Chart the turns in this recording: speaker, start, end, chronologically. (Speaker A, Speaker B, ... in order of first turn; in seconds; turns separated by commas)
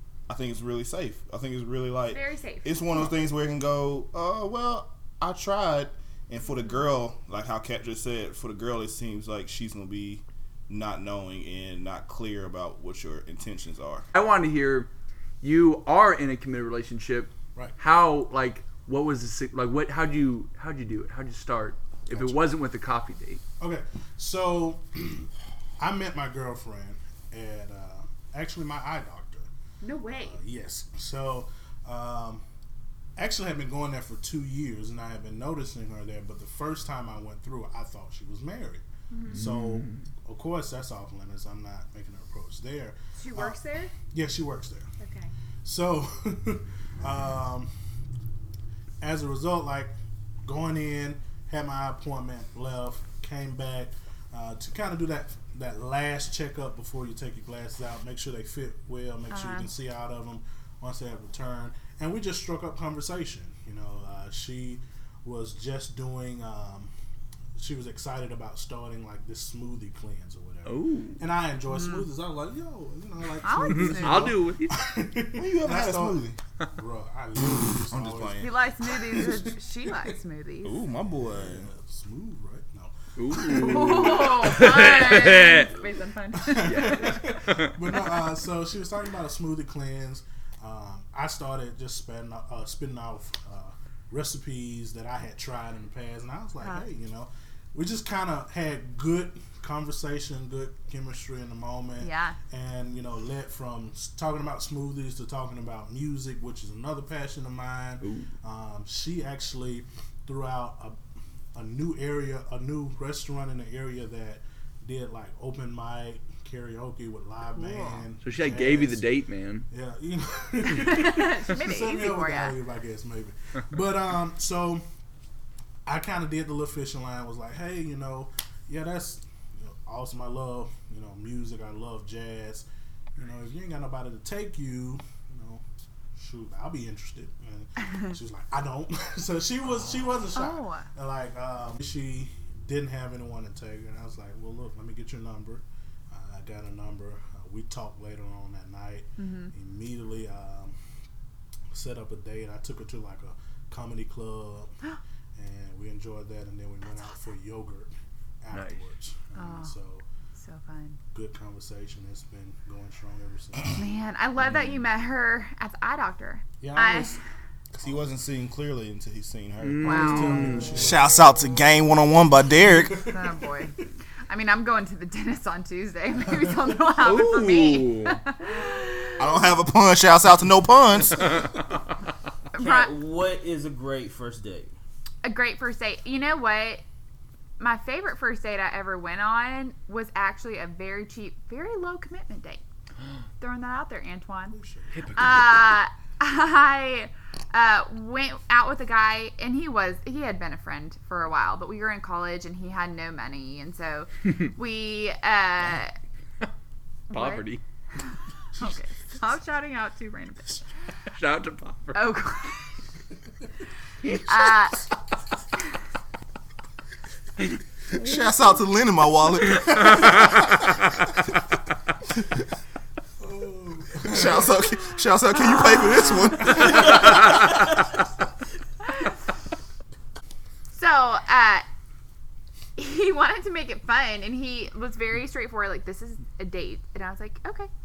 Speaker A: 0.3-14.1, Speaker B: 2.1-3.1, Speaker C: 14.1-14.9, Speaker C: 15.4-23.4, Speaker D: 22.1-22.4, Speaker D: 23.6-25.3, Speaker D: 25.8-29.5, Speaker B: 29.8-30.4, Speaker D: 30.2-32.4, Speaker D: 33.2-44.9, Speaker B: 39.1-39.4, Speaker C: 39.3-40.1, Speaker B: 43.1-43.9, Speaker B: 45.0-45.3, Speaker D: 45.6-47.7, Speaker D: 49.0-66.9, Speaker B: 59.3-59.7, Speaker D: 67.6-79.5, Speaker C: 70.7-71.3, Speaker B: 71.7-72.1, Speaker B: 73.4-74.3, Speaker C: 73.6-74.8, Speaker A: 75.3-76.3, Speaker A: 77.4-78.5, Speaker B: 78.4-80.7, Speaker A: 80.6-81.7, Speaker D: 81.2-84.9, Speaker C: 83.2-85.7, Speaker B: 83.5-86.9, Speaker D: 86.3-111.0, Speaker C: 86.7-87.8, Speaker B: 96.6-96.8, Speaker B: 102.0-102.4, Speaker C: 108.0-108.3, Speaker D: 111.5-119.0, Speaker B: 117.5-118.1, Speaker C: 118.2-119.7, Speaker D: 119.7-124.8, Speaker B: 120.8-122.5, Speaker D: 125.8-132.6, Speaker D: 133.2-135.6, Speaker D: 136.2-150.8, Speaker B: 140.3-140.9, Speaker B: 149.2-149.5, Speaker D: 151.7-154.7, Speaker D: 155.3-157.9, Speaker D: 158.4-160.1, Speaker C: 158.5-158.8, Speaker B: 159.3-159.7, Speaker B: 160.3-161.0, Speaker D: 161.1-163.8, Speaker B: 163.8-167.2, Speaker D: 166.6-167.2, Speaker A: 167.7-173.1, Speaker D: 167.8-168.1, Speaker C: 169.6-170.9, Speaker D: 169.8-171.2, Speaker B: 169.8-170.8, Speaker D: 172.7-173.4, Speaker B: 172.9-179.4, Speaker C: 177.0-178.3, Speaker A: 179.2-181.5, Speaker B: 182.5-182.9, Speaker E: 182.5-184.7, Speaker B: 185.2-186.8, Speaker B: 187.6-192.6, Speaker B: 193.4-194.6, Speaker D: 194.5-195.5, Speaker C: 194.9-195.6, Speaker B: 195.1-205.9, Speaker B: 207.1-207.5, Speaker C: 207.1-207.6, Speaker B: 208.6-210.6, Speaker C: 211.1-212.1, Speaker B: 211.9-212.7, Speaker C: 214.0-214.5, Speaker B: 214.1-214.8, Speaker A: 217.9-220.7, Speaker C: 219.7-220.5, Speaker D: 223.2-224.7, Speaker A: 224.0-227.6, Speaker E: 226.7-227.0, Speaker C: 226.9-227.4, Speaker B: 230.7-231.7, Speaker B: 232.8-237.7